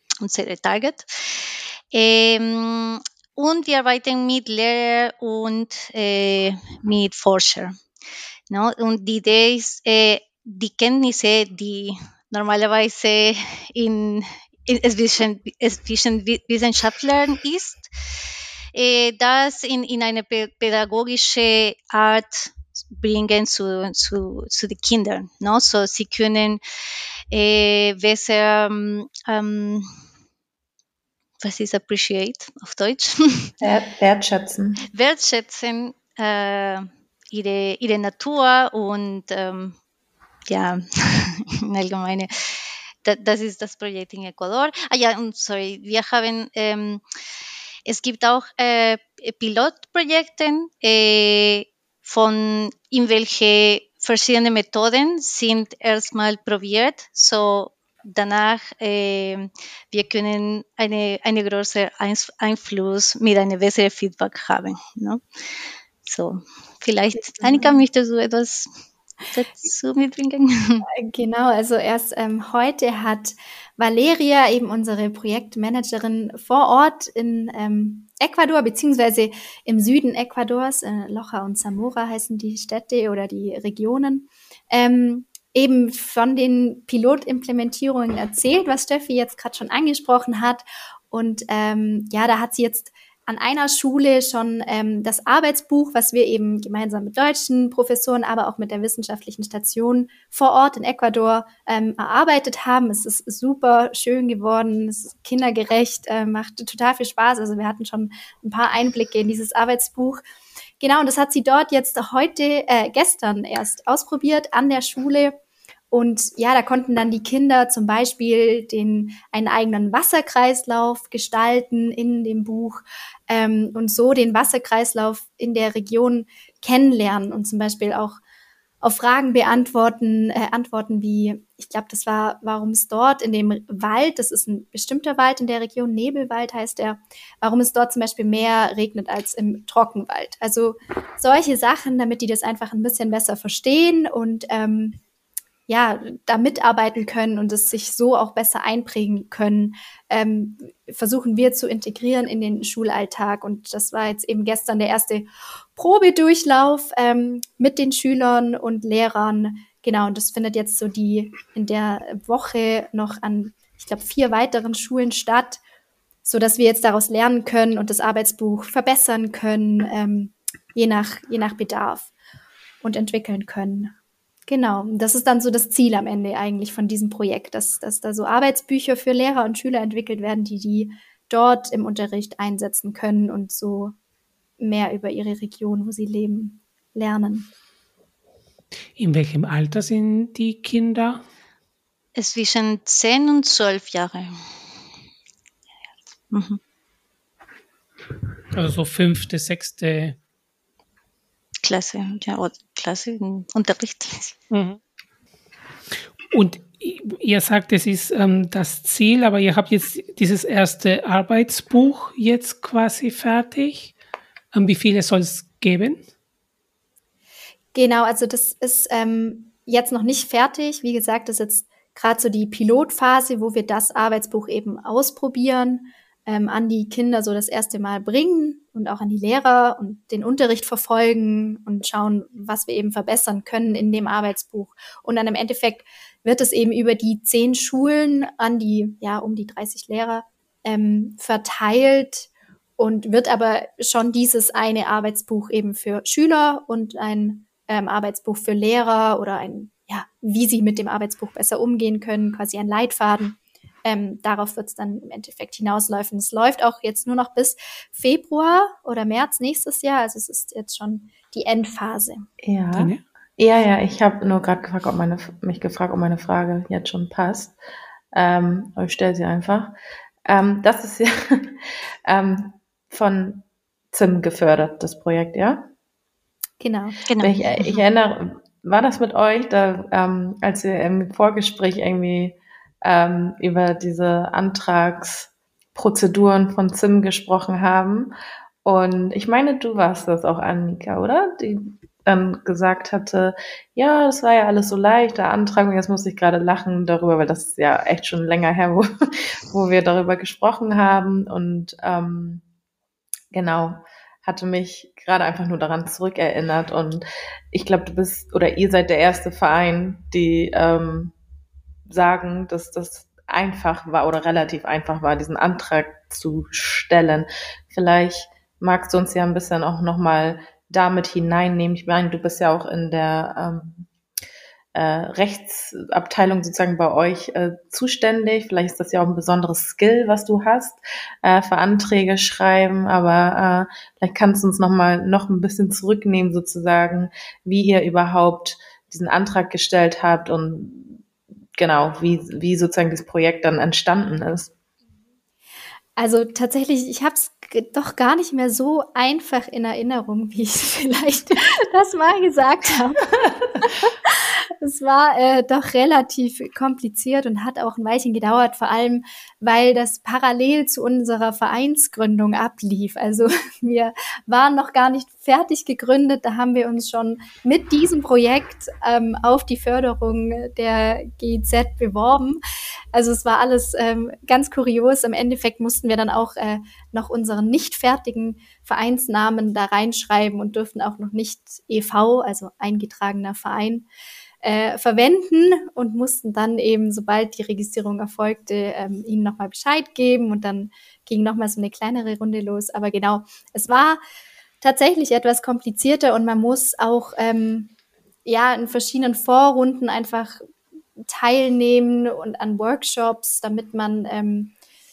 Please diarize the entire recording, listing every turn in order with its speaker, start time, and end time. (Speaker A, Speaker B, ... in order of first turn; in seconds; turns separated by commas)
Speaker A: 0.2-7.7, Speaker A: 8.5-17.9, Speaker A: 18.7-26.6, Speaker A: 27.3-29.9, Speaker A: 31.4-33.5, Speaker B: 33.6-34.8, Speaker A: 34.9-39.7, Speaker A: 40.5-47.0, Speaker A: 47.9-65.2, Speaker A: 66.0-68.7, Speaker C: 67.2-67.8, Speaker A: 69.3-70.8, Speaker C: 70.9-110.2, Speaker C: 110.8-115.3, Speaker C: 115.9-128.2, Speaker C: 128.8-145.0, Speaker C: 145.7-165.6, Speaker C: 166.2-172.1, Speaker C: 172.8-173.9, Speaker C: 174.5-183.9, Speaker C: 184.6-187.5, Speaker D: 189.0-191.2, Speaker A: 192.1-194.4, Speaker A: 196.3-196.6, Speaker D: 198.5-200.2, Speaker A: 201.6-204.3, Speaker D: 204.5-204.8, Speaker D: 206.3-213.9, Speaker D: 214.5-216.0, Speaker C: 217.7-262.3, Speaker B: 262.4-267.6, Speaker D: 262.7-263.0, Speaker B: 268.1-269.7, Speaker B: 270.2-275.7, Speaker C: 276.6-277.0, Speaker A: 277.1-277.8, Speaker B: 277.2-288.1, Speaker B: 288.6-298.8, Speaker B: 299.5-302.4, Speaker B: 303.3-311.1, Speaker B: 311.9-323.9, Speaker B: 324.7-341.0, Speaker B: 341.6-344.5, Speaker C: 346.0-372.4, Speaker C: 372.9-383.9, Speaker C: 384.4-394.0, Speaker C: 394.6-397.7, Speaker C: 398.2-400.4, Speaker C: 401.0-404.5